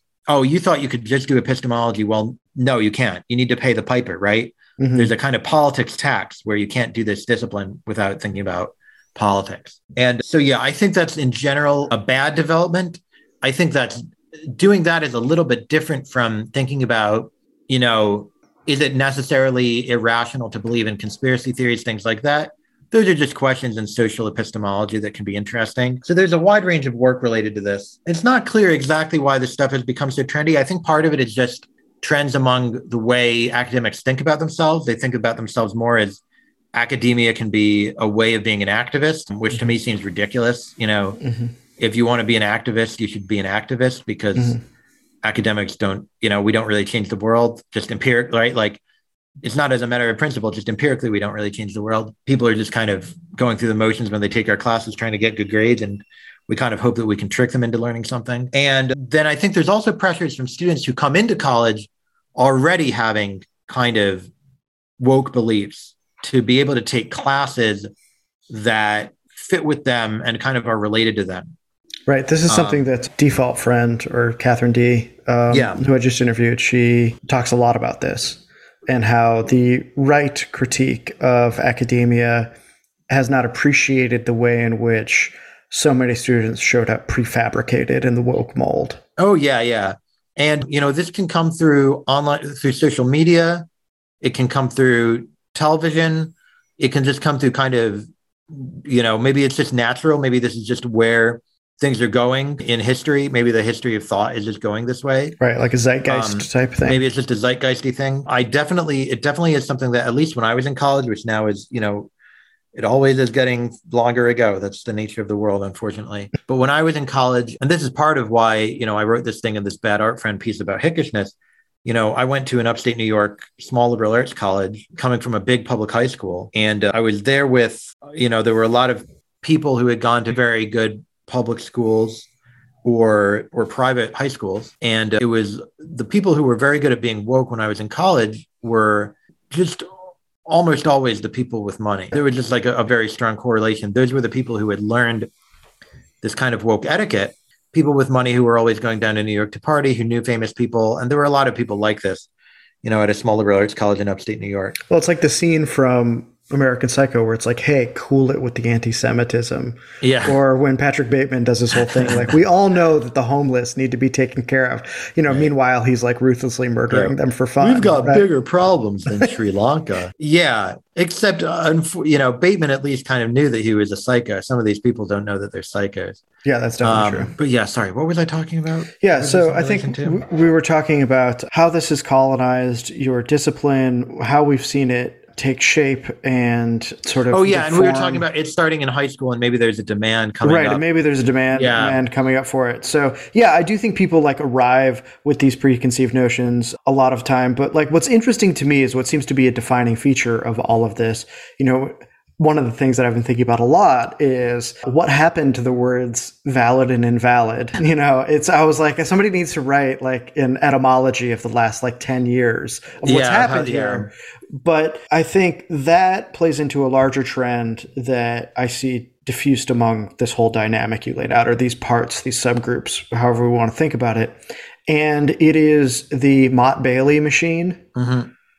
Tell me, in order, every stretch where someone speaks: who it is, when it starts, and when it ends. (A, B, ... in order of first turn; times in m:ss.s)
0:00.3-0:36.2 A
0:04.8-0:05.1 B
0:36.7-0:41.2 A
0:41.2-0:41.5 B
0:41.8-0:44.6 A
0:45.2-0:48.8 A
0:49.4-1:04.3 A
1:05.0-1:07.9 A
1:08.5-1:11.5 A
1:12.1-1:22.5 B
1:12.5-1:12.8 A
1:15.5-1:15.8 A
1:23.1-1:29.0 B
1:29.2-1:33.6 A
1:34.2-1:45.4 A
1:45.4-1:47.0 B
1:46.1-1:52.1 A
1:52.7-2:12.3 A
2:12.8-2:19.9 A
2:20.4-2:25.3 A
2:26.2-2:32.3 A
2:32.8-2:34.8 A
2:34.9-2:48.3 B
2:40.0-2:40.4 A
2:42.0-2:42.3 A
2:46.9-2:56.2 A
2:56.4-2:57.3 B
2:56.8-3:00.2 A
2:59.0-3:08.2 B
3:07.3-3:10.8 A
3:10.4-3:47.8 B
3:11.5-3:12.0 A
3:33.0-3:34.1 A
3:48.0-3:48.3 A